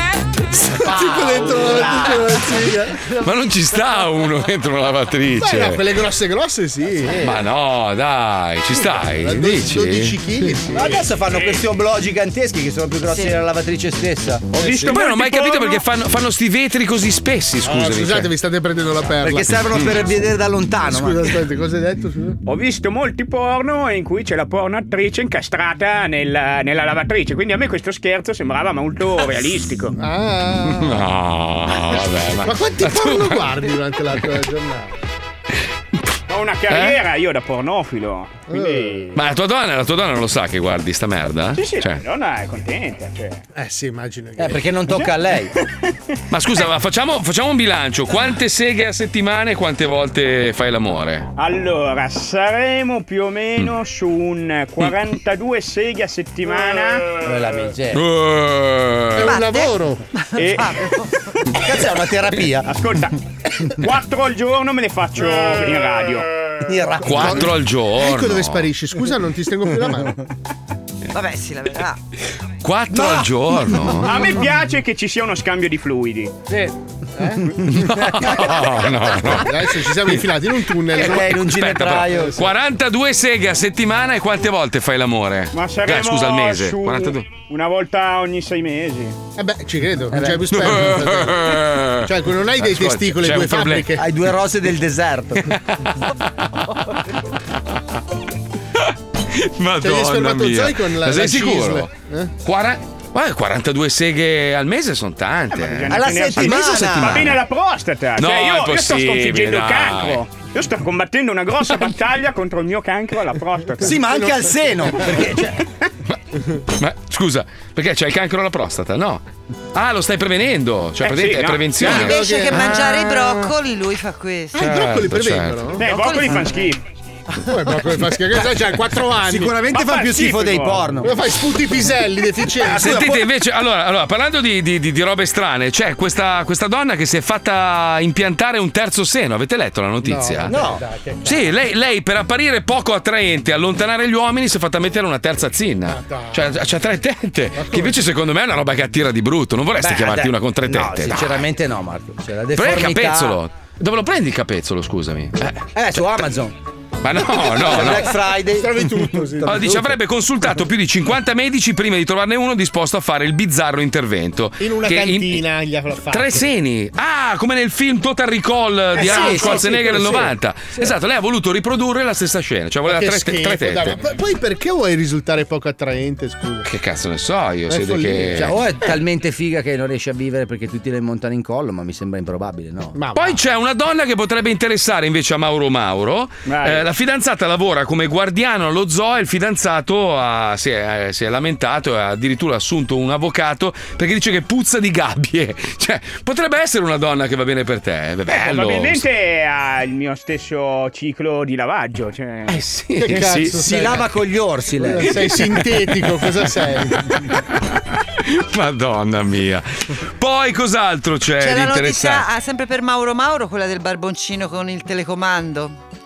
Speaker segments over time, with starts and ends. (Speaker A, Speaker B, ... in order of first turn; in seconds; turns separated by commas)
Speaker A: 0.8-3.0, Speaker B: 1.4-1.8, Speaker C: 3.2-5.8, Speaker A: 5.4-7.4, Speaker C: 7.2-10.6, Speaker A: 8.7-11.0, Speaker B: 10.7-14.5, Speaker D: 14.5-15.8, Speaker C: 14.7-18.3, Speaker A: 17.6-19.6, Speaker B: 19.2-21.3, Speaker A: 20.9-22.4, Speaker D: 22.4-30.0, Speaker A: 30.0-31.0, Speaker C: 30.7-33.5, Speaker A: 32.4-34.9, Speaker D: 36.3-39.2, Speaker C: 36.7-37.0, Speaker A: 38.5-39.0, Speaker C: 39.2-42.0, Speaker D: 41.6-43.4, Speaker A: 43.5-44.7, Speaker B: 44.4-45.5, Speaker D: 44.9-45.7, Speaker C: 46.3-51.3, Speaker D: 51.4-57.1, Speaker B: 57.2-58.0, Speaker C: 57.9-59.4, Speaker A: 59.1-60.0, Speaker E: 59.2-61.1, Speaker D: 60.4-60.8, Speaker B: 61.5-62.7, Speaker D: 62.6-66.3, Speaker B: 66.7-67.4, Speaker C: 67.0-68.7, Speaker A: 67.1-70.2, Speaker E: 71.1-72.0, Speaker C: 72.6-74.3, Speaker D: 74.0-76.3, Speaker A: 76.5-78.0, Speaker C: 77.7-79.5, Speaker A: 79.2-81.4, Speaker B: 81.0-82.4, Speaker C: 81.0-87.3, Speaker D: 85.5-89.2, Speaker A: 89.4-94.0, Speaker B: 90.1-90.5, Speaker C: 90.5-93.9, Speaker B: 94.0-95.5, Speaker C: 99.3-101.9, Speaker A: 99.8-102.3, Speaker C: 102.4-107.2, Speaker D: 105.5-114.2, Speaker B: 105.9-107.3, Speaker C: 108.2-110.2, Speaker B: 113.8-115.6, Speaker C: 116.8-119.2, Speaker C: 119.8-122.6, Speaker D: 121.0-122.0, Speaker A: 121.8-123.5, Speaker E: 121.9-124.6, Speaker A: 124.5-126.2, Speaker C: 124.6-125.7, Speaker D: 125.8-126.8, Speaker A: 127.4-129.6, Speaker B: 129.2-131.1, Speaker D: 129.7-130.9, Speaker A: 131.0-133.1, Speaker B: 132.6-133.2, Speaker C: 132.7-140.6, Speaker A: 140.0-141.4, Speaker B: 140.5-140.8, Speaker C: 141.2-151.4, Speaker A: 145.9-146.5, Speaker A: 147.6-148.0, Speaker B: 149.8-153.4, Speaker C: 152.6-155.7, Speaker B: 155.8-156.6, Speaker C: 157.0-158.2, Speaker B: 157.4-159.8, Speaker A: 157.7-159.8, Speaker C: 159.4-165.4, Speaker A: 164.6-166.5, Speaker C: 166.1-174.0, Speaker B: 169.0-170.9, Speaker A: 169.0-169.7, Speaker A: 172.9-176.7, Speaker C: 176.7-178.6, Speaker A: 177.7-178.5, Speaker B: 178.4-183.0, Speaker A: 182.9-183.4, Speaker C: 183.2-199.1, Speaker D: 186.5-186.9, Speaker D: 198.3-202.6, Speaker C: 202.5-203.8, Speaker A: 203.0-204.1, Speaker B: 203.5-205.1, Speaker A: 204.8-207.1, Speaker C: 208.2-212.3, Speaker E: 211.4-215.8